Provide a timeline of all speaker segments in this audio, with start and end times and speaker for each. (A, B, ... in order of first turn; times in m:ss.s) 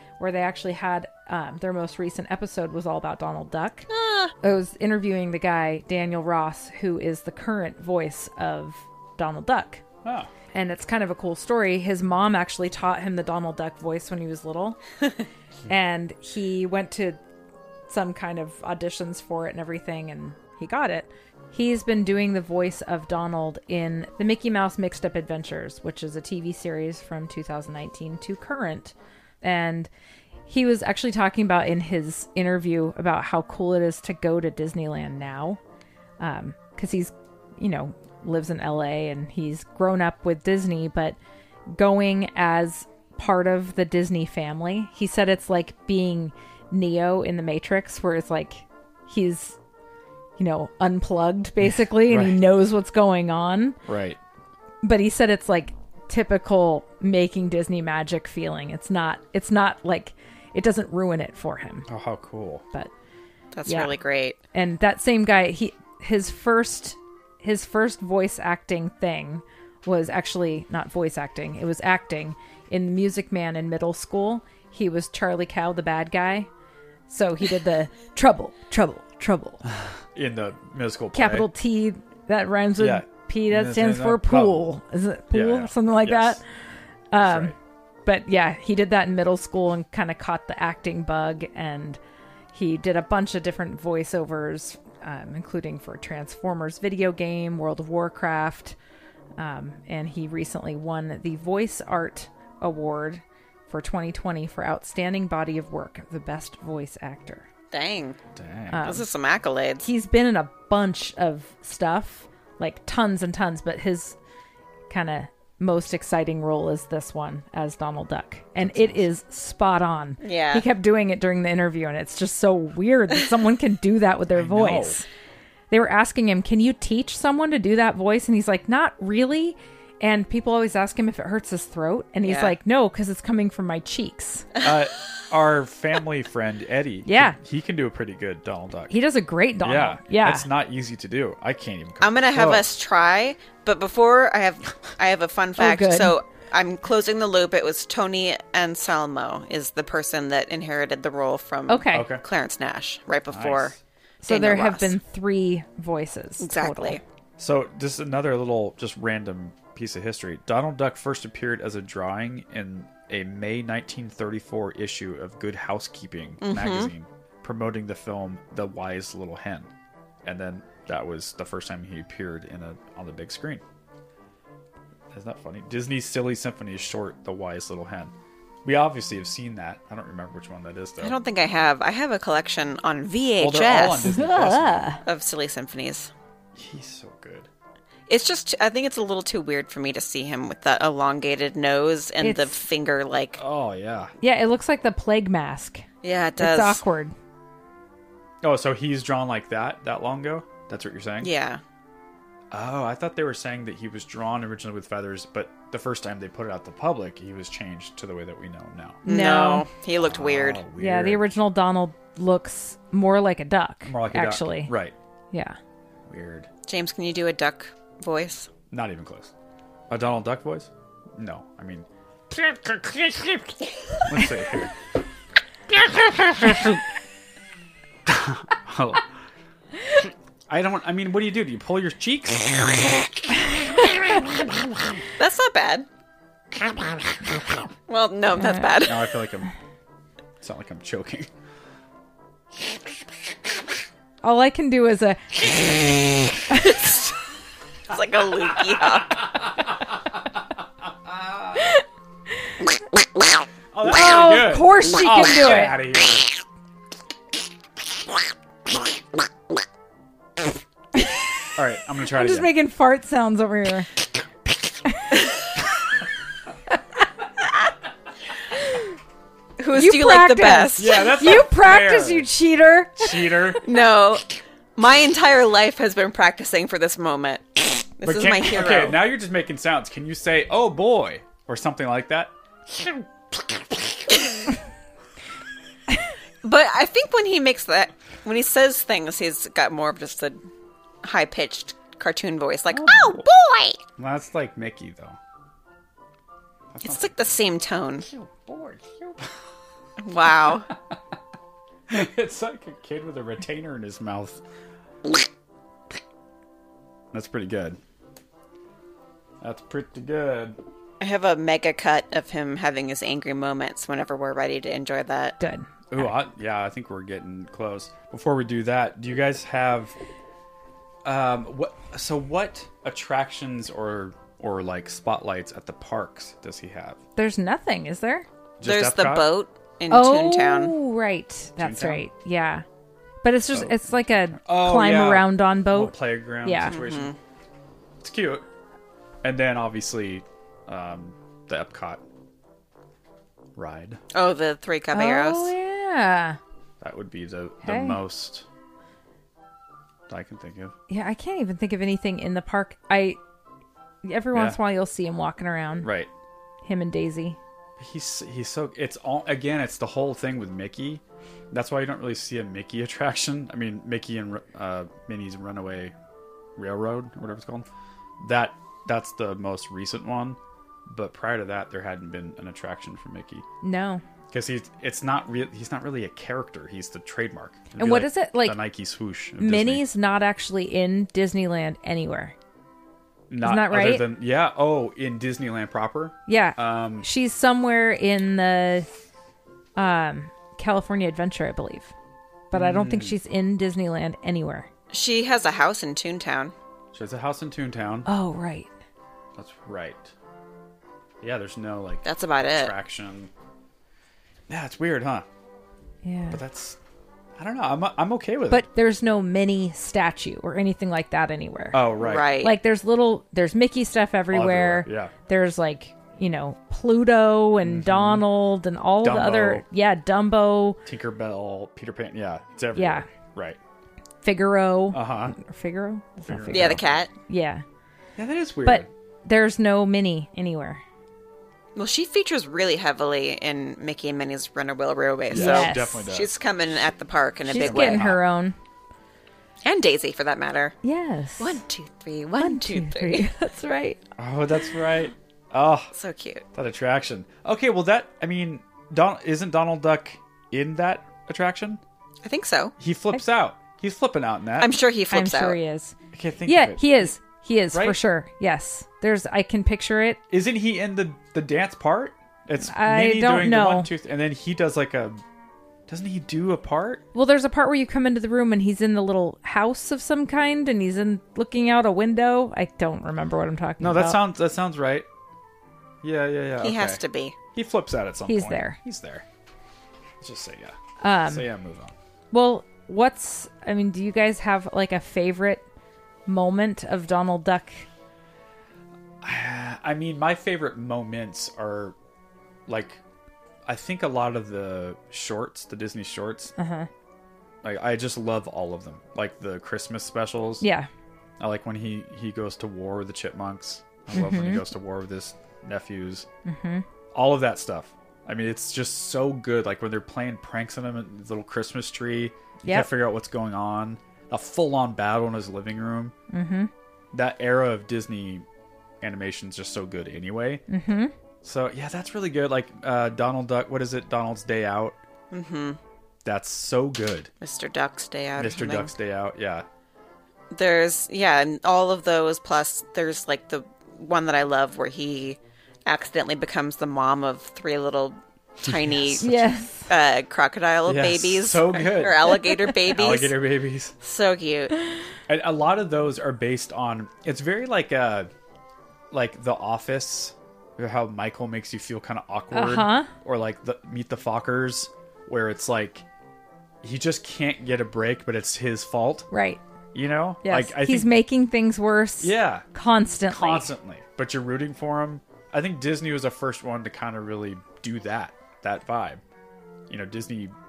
0:00.2-0:03.9 A
0:03.9-0:04.3 B
0:04.4-0:09.8 A
0:10.0-0:10.3 C
0:10.5-0:14.8 A
0:15.7-0:17.2 A
0:17.9-0:29.9 A
0:30.5-0:35.6 A
0:36.2-0:41.2 A
0:41.7-0:49.6 A
0:50.4-0:53.8 A
0:51.6-0:52.4 C
0:53.9-0:54.2 C
0:54.8-1:01.9 A
1:01.9-1:02.6 C
1:03.5-1:04.4 B
1:03.6-1:03.9 A
1:04.5-1:16.5 A
1:17.1-1:19.6 A
1:20.1-1:21.5 C
1:21.1-1:26.4 A
1:22.8-1:24.7 C
1:25.3-1:26.4 C
1:27.1-1:27.5 A
1:27.2-1:27.6 C
1:28.0-1:32.0 A
1:32.5-1:38.8 A
1:39.4-1:47.5 A
1:47.7-1:48.2 B
1:48.4-1:48.9 C
1:48.7-1:49.0 A
1:48.8-1:49.8 B
1:49.8-1:54.2 A
1:54.9-2:05.0 A
1:58.6-1:59.1 C
2:00.2-2:00.7 B
2:04.4-2:05.0 C
2:05.7-2:14.5 A
2:12.2-2:12.6 B
2:14.6-2:19.0 C
2:17.0-2:17.4 A
2:18.9-2:20.5 A
2:19.6-2:22.7 C
2:22.0-2:35.0 B
2:25.6-2:26.2 A
2:31.7-2:32.1 A
2:31.9-2:32.2 C
2:33.3-2:33.8 C
2:34.2-2:37.0 A
2:36.4-2:37.0 B
2:37.4-2:49.7 C
2:46.4-2:46.9 B
2:50.2-2:53.6 C
2:55.1-2:58.1 C
2:58.6-3:01.2 C
3:01.0-3:04.1 B
3:03.4-3:05.0 C
3:04.0-3:05.0 A
3:05.0-3:06.1 B
3:06.6-3:07.5 C
3:08.1-3:13.4 B
3:12.2-3:12.6 A
3:13.4-3:14.1 C
3:14.2-3:15.9 A
3:16.0-3:16.8 B
3:16.4-3:17.1 A
3:18.4-3:21.3 C
3:21.2-3:21.6 B
3:22.5-3:29.0 C
3:29.0-3:29.7 A
3:29.0-3:30.6 B
3:30.0-3:31.2 C
3:30.8-3:34.7 A
3:33.8-3:35.0 C
3:35.3-3:35.6 A
3:36.1-3:36.5 C
3:36.6-3:38.5 B
3:38.7-3:39.3 C
3:39.9-3:43.5 C
3:44.0-3:44.8 C
3:45.8-3:46.8 C
3:48.1-3:49.1 C
3:50.0-3:54.4 C
3:55.2-3:55.9 B
3:57.9-3:59.1 B
3:58.4-3:58.7 A
3:58.8-3:59.5 C
4:00.4-4:01.3 C
4:04.2-4:06.8 A
4:07.9-4:09.3 B
4:08.6-4:11.8 C
4:11.6-4:11.8 A
4:13.7-4:16.4 C
4:13.8-4:15.8 A
4:21.0-4:21.2 A
4:21.6-4:22.5 C
4:22.1-4:23.9 A
4:24.9-4:25.2 A
4:29.6-4:31.1 B
4:29.7-4:33.5 A
4:30.8-4:32.3 C
4:33.0-4:33.6 C
4:33.6-4:39.0 B
4:38.0-4:43.6 C
4:46.4-4:50.4 B
4:51.0-4:53.8 B
4:52.7-4:53.3 C
4:54.0-4:55.2 C
4:56.7-4:57.1 C
4:56.8-4:58.1 B
4:58.1-4:59.3 C
5:00.0-5:00.7 B
5:00.5-5:01.1 C
5:01.9-5:04.4 C
5:07.1-5:07.8 C
5:09.4-5:10.6 C
5:11.0-5:15.4 B
5:15.4-5:16.0 A
5:15.9-5:20.0 C
5:21.0-5:27.0 C
5:27.2-5:28.3 A
5:28.6-5:29.3 C
5:28.6-5:30.8 B
5:29.9-5:32.6 A
5:31.6-5:32.0 C
5:33.2-5:36.8 A
5:33.5-5:37.1 C
5:36.6-5:37.2 B
5:38.0-5:38.4 C
5:39.2-5:42.0 C
5:43.6-5:44.0 C
5:44.1-5:45.5 B
5:44.9-5:46.4 A
5:46.8-5:48.5 C
5:47.6-5:48.0 A
5:50.1-5:50.8 C
5:50.9-5:53.2 A
5:54.0-5:55.9 A
5:54.3-5:54.6 C
5:55.8-5:56.1 C
5:56.6-5:57.4 A
5:57.8-6:05.9 C
6:06.6-6:07.7 C
6:08.2-6:13.4 C
6:13.6-6:14.0 A
6:14.3-6:19.8 C
6:17.8-6:18.6 A
6:19.4-6:22.4 A
6:23.3-6:27.1 C
6:23.4-6:24.1 A
6:26.3-6:28.9 A
6:29.8-6:31.9 A
6:32.5-6:34.7 A
6:32.5-6:33.2 C
6:34.9-6:36.5 B
6:36.9-6:38.1 C
6:38.1-6:38.7 A
6:39.4-6:40.1 C
6:41.2-6:43.3 C
6:42.0-6:42.7 B
6:44.5-6:45.3 C
6:46.0-6:46.4 A
6:46.3-6:46.8 C
6:47.4-6:48.6 C
6:48.5-6:51.9 A
6:51.7-6:52.4 C
6:52.0-6:52.6 B
6:52.4-7:00.8 A
6:54.3-6:55.1 C
6:57.6-6:58.3 C
6:59.0-6:59.6 C
7:00.9-7:03.6 C
7:02.7-7:03.1 A
7:04.2-7:07.6 A
7:04.9-7:05.4 C
7:06.3-7:07.0 C
7:06.5-7:07.1 B
7:08.2-7:08.9 C
7:08.6-7:10.8 A
7:11.8-7:18.1 B
7:15.3-7:16.3 C
7:15.3-7:16.1 A
7:17.5-7:18.6 A
7:17.5-7:18.2 C
7:19.6-7:20.8 B
7:20.8-7:21.6 A
7:21.4-7:23.3 B
7:22.4-7:24.0 A
7:24.2-7:25.9 C
7:25.9-7:26.4 B
7:26.5-7:31.8 C
7:32.2-7:32.7 B
7:32.8-7:34.8 C
7:34.6-7:35.6 B
7:35.1-7:40.2 A
7:36.1-7:37.1 C
7:37.7-7:38.0 C
7:40.3-7:45.2 C
7:42.6-7:43.9 A
7:45.9-7:47.0 C
7:47.1-7:54.2 A
7:53.8-7:55.1 C
7:56.0-7:57.0 C
7:56.6-7:57.4 B
7:57.5-7:59.3 C
7:58.3-7:58.8 A
8:00.2-8:01.9 C
8:01.0-8:01.5 A
8:02.3-8:05.6 A
8:06.3-8:07.9 A
8:09.2-8:12.0 C
8:12.7-8:13.0 C
8:13.6-8:16.6 C
8:16.6-8:16.9 A
8:17.6-8:20.6 C
8:20.6-8:20.9 A
8:21.4-8:26.3 C
8:24.1-8:24.6 A
8:26.4-8:26.8 A
8:27.1-8:36.1 C
8:32.6-8:32.9 A
8:36.3-8:36.7 A
8:37.1-8:38.5 C
8:39.0-8:40.6 C
8:40.7-8:41.1 A
8:41.4-8:45.0 C
8:45.3-8:45.8 B
8:46.2-8:47.3 C
8:47.4-8:48.9 B
8:48.4-8:49.6 C
8:50.5-9:03.4 B
8:58.6-8:59.2 C
8:59.2-8:59.9 A
9:00.9-9:04.0 C
9:04.0-9:04.8 B
9:05.3-9:08.3 C
9:09.1-9:16.0 C
9:12.5-9:13.1 A
9:16.8-9:19.3 C
9:19.3-9:19.6 A
9:19.9-9:21.2 C
9:20.4-9:23.7 A
9:22.2-9:22.6 C
9:23.3-9:29.2 C
9:29.9-9:30.6 C